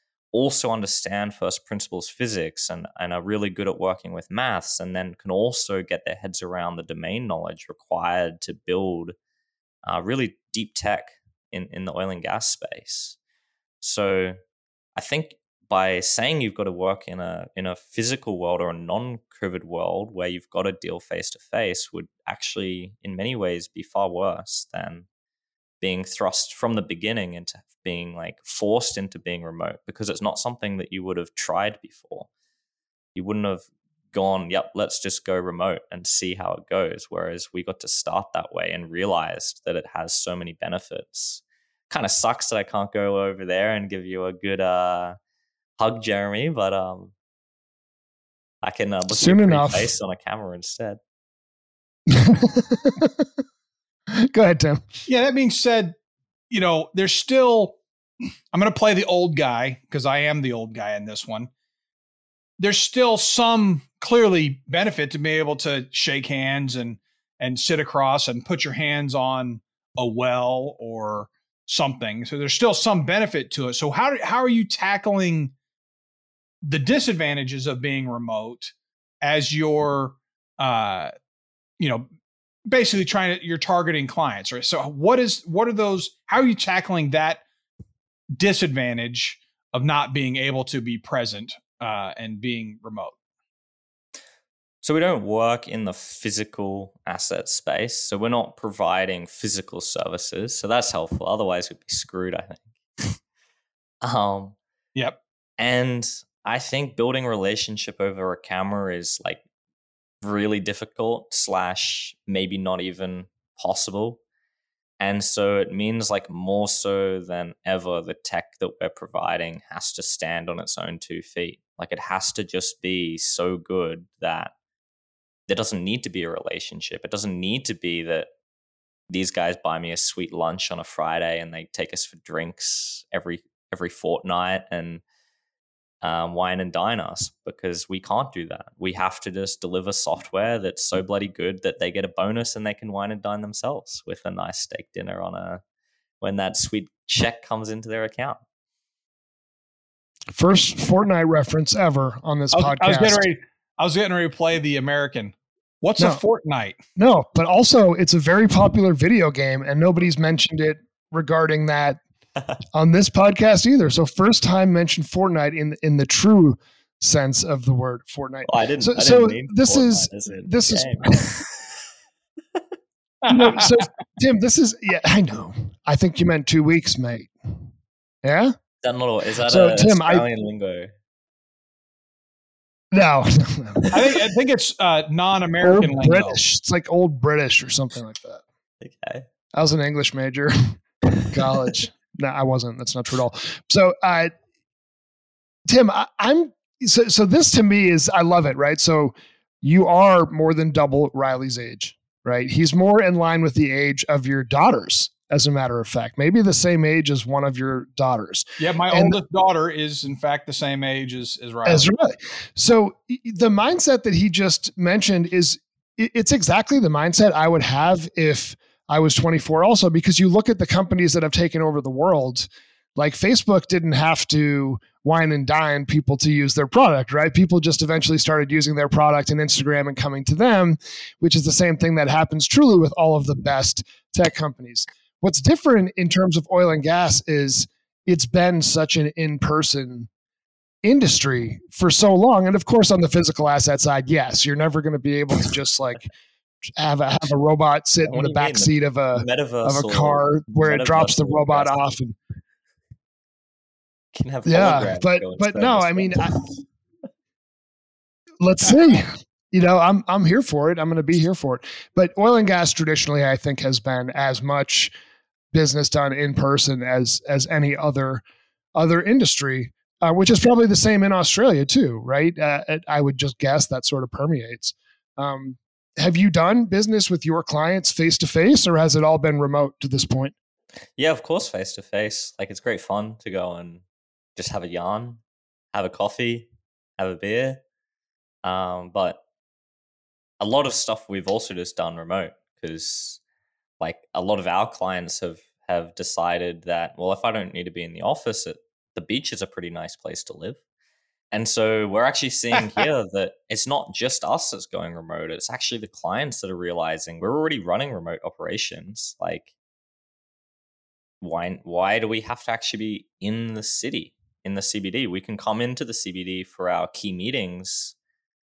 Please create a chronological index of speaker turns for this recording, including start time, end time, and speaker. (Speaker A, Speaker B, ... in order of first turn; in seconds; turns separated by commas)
Speaker A: 0.3-9.1, Speaker A: 9.8-13.2, Speaker A: 13.8-14.4, Speaker A: 14.9-25.1, Speaker A: 25.8-32.3, Speaker A: 33.1-45.2, Speaker A: 45.8-47.1, Speaker A: 48.6-51.0, Speaker B: 49.1-49.9, Speaker B: 52.1-53.2, Speaker B: 54.2-54.9, Speaker C: 55.0-55.9, Speaker C: 56.5-57.8, Speaker C: 58.5-61.5, Speaker C: 62.6-75.5, Speaker C: 76.6-81.1, Speaker C: 81.8-82.1, Speaker C: 82.7-87.4, Speaker C: 88.4-93.1, Speaker A: 94.8-103.2, Speaker A: 104.0-104.5, Speaker A: 105.6-109.4, Speaker A: 110.2-114.2, Speaker A: 115.0-124.5, Speaker A: 125.5-128.3, Speaker A: 129.1-135.0, Speaker A: 136.0-145.6, Speaker A: 146.2-148.4, Speaker B: 150.3-153.2, Speaker C: 152.5-156.8, Speaker B: 157.0-162.0, Speaker B: 162.7-171.2, Speaker A: 168.4-171.7, Speaker C: 173.2-173.7, Speaker B: 173.3-177.3, Speaker B: 178.2-178.5, Speaker A: 178.8-180.9, Speaker B: 179.4-180.2, Speaker B: 182.9-184.2, Speaker C: 183.9-186.4, Speaker B: 185.6-188.4, Speaker A: 188.8-189.3, Speaker B: 189.5-194.3, Speaker B: 195.7-209.2, Speaker C: 208.6-211.9, Speaker B: 211.6-240.1, Speaker B: 240.8-246.1, Speaker B: 246.8-252.2, Speaker A: 248.0-251.8, Speaker A: 254.1-256.3, Speaker B: 254.4-256.3, Speaker B: 258.4-264.9, Speaker B: 265.5-268.2, Speaker B: 268.7-280.3, Speaker A: 281.0-283.8, Speaker A: 284.4-285.2, Speaker A: 285.7-287.6, Speaker A: 288.4-289.2, Speaker A: 290.4-293.2, Speaker A: 293.8-300.6, Speaker A: 301.3-309.5, Speaker A: 311.2-317.9